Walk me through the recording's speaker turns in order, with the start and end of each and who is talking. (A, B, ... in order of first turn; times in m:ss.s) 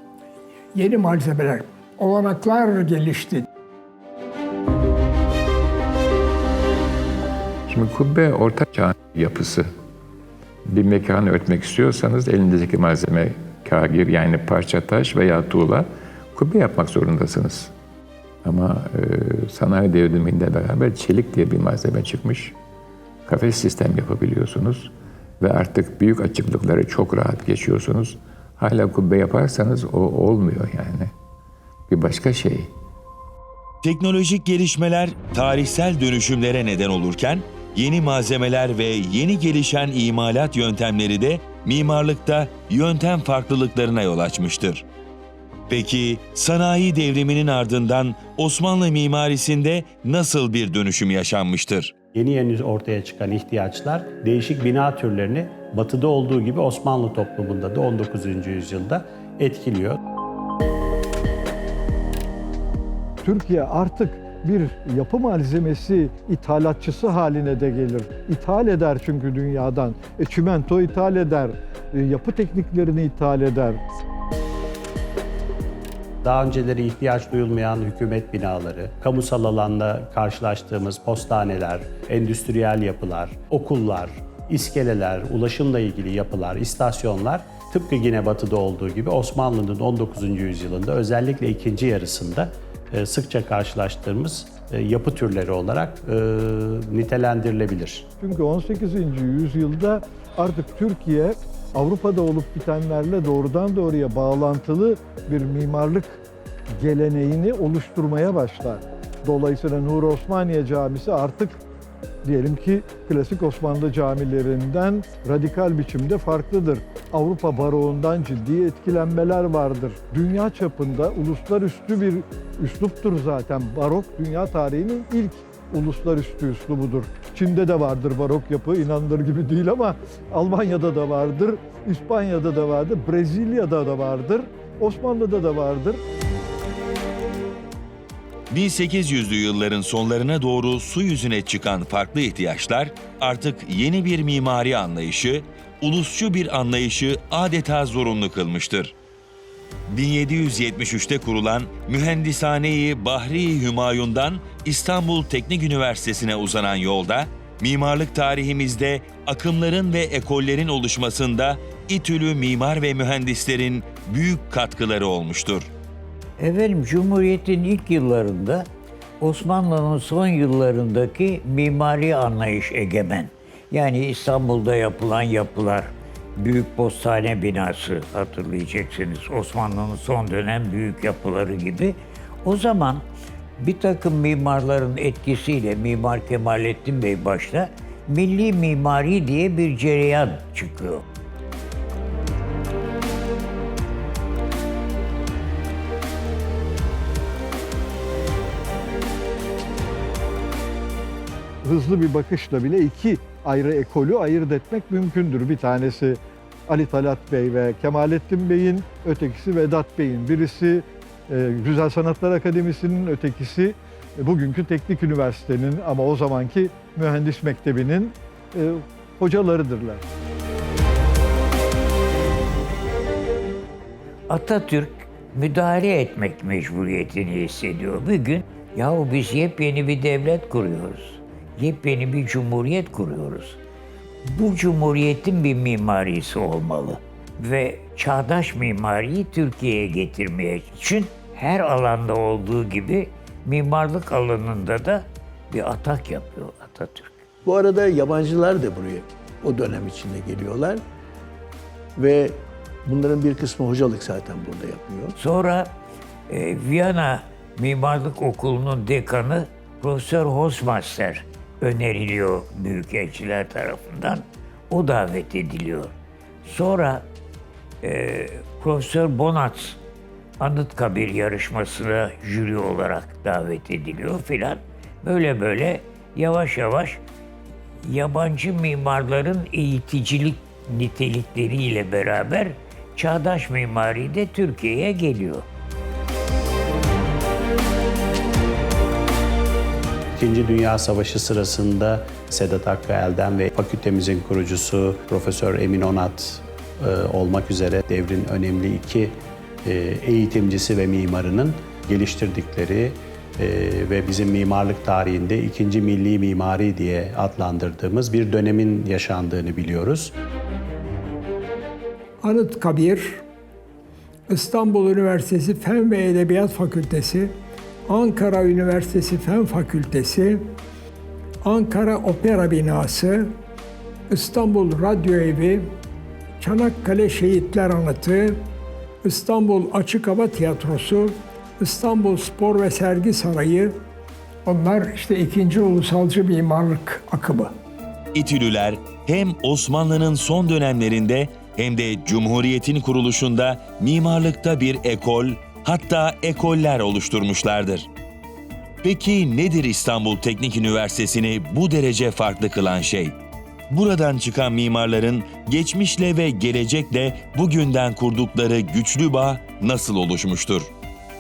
0:00.7-0:03.5 A
0:07.7-0:09.7 B
0:10.6-0:17.7 B
0:18.4-0:22.6 B
0:23.3-0:31.1 B
0:31.9-0:32.7 B
0:33.8-0:44.8 C
0:45.7-0:51.9 C
0:52.1-1:00.0 D
1:03.2-1:13.8 E
1:16.2-1:38.1 D
1:38.2-1:46.2 E
1:46.8-1:51.6 E
1:52.2-2:16.0 E
2:18.5-2:28.9 C
2:29.9-2:45.7 C
2:46.4-2:48.7 F
2:49.2-3:03.0 F
3:03.6-3:11.0 F
3:21.6-3:40.0 E
3:44.3-3:53.6 F
3:54.2-4:07.2 F
4:07.4-4:10.8 G
4:12.0-4:15.2 G
4:15.2-4:15.7 F
4:16.3-4:25.9 F
4:26.4-4:27.1 F
4:27.8-4:29.8 F
4:30.4-4:37.0 F
4:37.8-4:45.4 F
4:50.2-5:10.1 D
5:12.2-5:13.2 A
5:14.3-5:17.4 A
5:17.9-5:20.5 A
5:21.4-5:23.4 A
5:24.1-5:25.8 A
5:26.4-5:28.4 A
5:29.0-5:33.8 A
5:34.4-5:37.6 A
5:38.1-5:47.9 C
5:48.8-5:53.2 C
5:53.7-6:00.7 C